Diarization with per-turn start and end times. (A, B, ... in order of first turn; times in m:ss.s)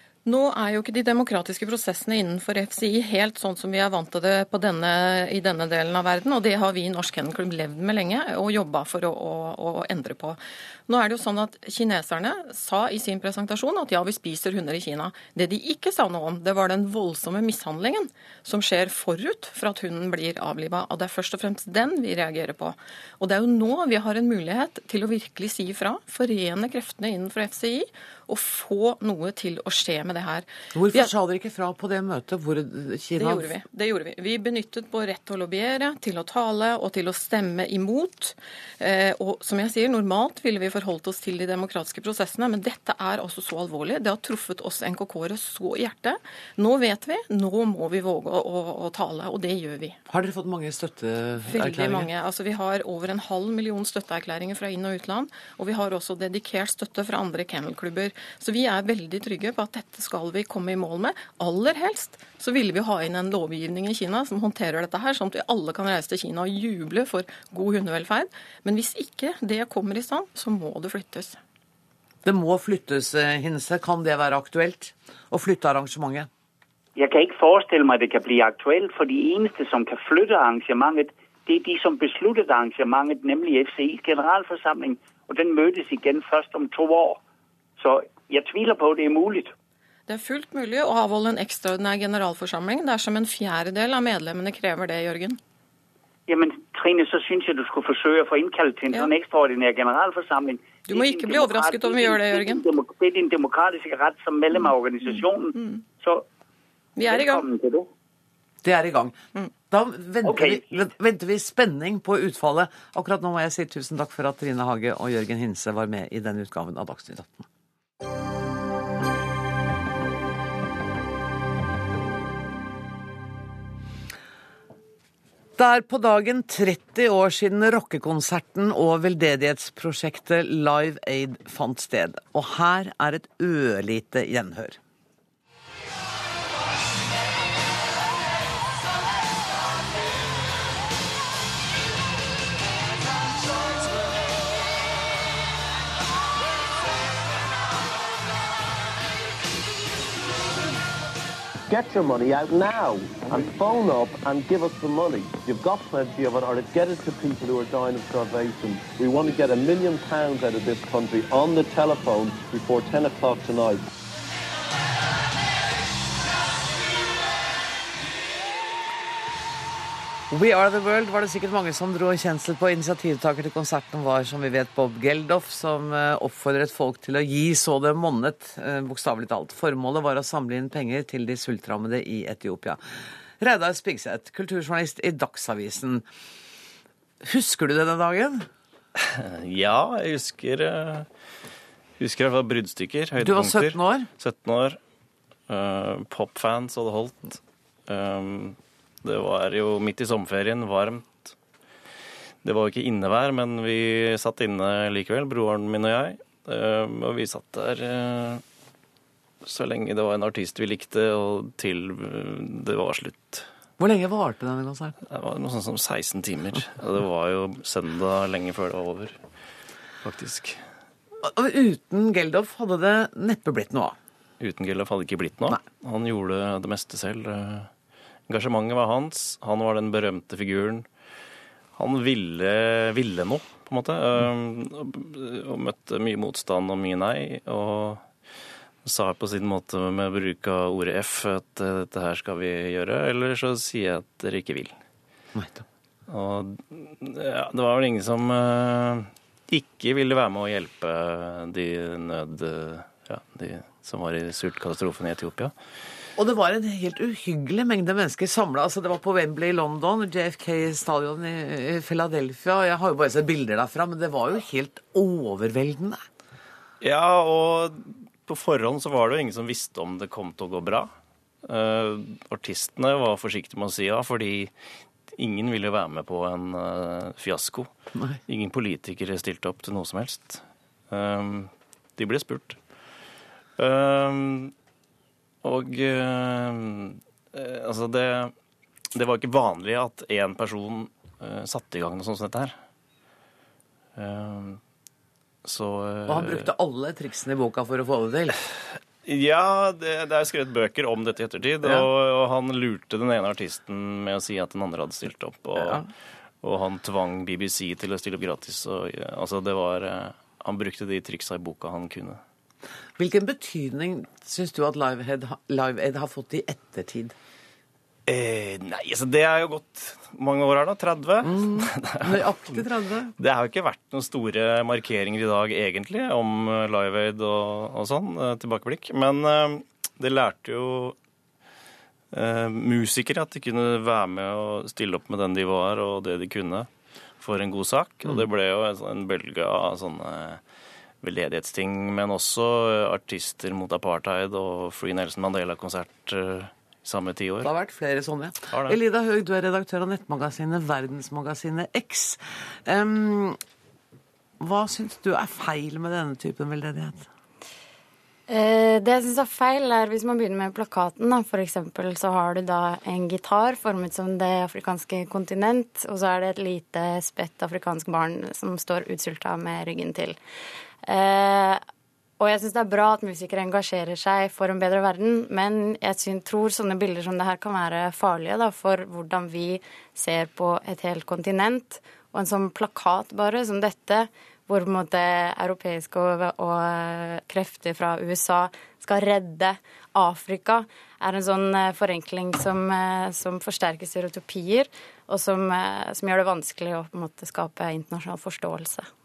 0:00.2-0:31.1 A
0:30.7-0:33.5 B
0:33.2-0:50.0 A
0:50.1-0:52.1 B
0:51.4-1:11.4 A
1:12.2-1:16.3 B
1:17.0-1:27.2 C
1:27.8-1:29.5 C
1:30.1-1:35.4 A
1:36.3-1:46.2 C
1:40.8-1:42.6 A
1:44.6-1:45.8 A
1:47.0-1:47.5 A
1:47.0-1:47.9 C
1:48.6-1:49.2 B
1:49.7-1:57.5 B
1:50.2-1:50.7 C
2:05.6-2:14.8 B
2:31.7-2:43.8 D
2:50.3-3:02.8 B
3:03.4-3:06.0 B
3:07.2-3:08.5 B
3:09.0-3:11.1 E
3:12.0-3:14.8 E
3:13.2-3:14.1 B
3:15.5-3:21.3 E
3:22.4-3:28.4 E
3:29.4-3:33.4 E
3:33.8-3:35.0 B
3:35.1-3:39.2 E
3:40.0-3:40.6 E
3:41.2-3:44.0 B
3:44.4-3:47.7 E
3:48.3-3:50.9 E
3:51.8-3:58.1 E
3:58.8-4:04.7 E
4:05.3-4:05.6 B
4:06.1-4:15.5 E
4:16.2-4:26.0 B
4:26.8-4:30.9 E
4:31.4-4:34.5 E
4:35.1-4:37.7 E
4:37.9-4:38.2 B
4:38.3-4:42.6 E
4:43.6-4:44.5 E
4:45.4-4:48.3 E
4:48.9-4:52.6 E
4:54.0-4:54.6 E
4:55.4-4:56.5 E
4:56.1-4:58.4 B
4:59.0-5:05.9 E
5:05.6-5:05.8 B
5:06.4-5:12.2 E
5:13.0-5:17.1 B
5:18.1-5:22.6 E
5:21.2-5:23.1 B
5:23.2-5:31.0 E
5:32.1-5:40.4 E
5:41.0-5:47.5 E
5:47.4-5:53.4 B
5:48.5-5:48.8 E
5:54.4-5:57.1 B
5:58.3-6:10.2 F
6:10.8-6:11.6 F
6:12.2-6:38.8 F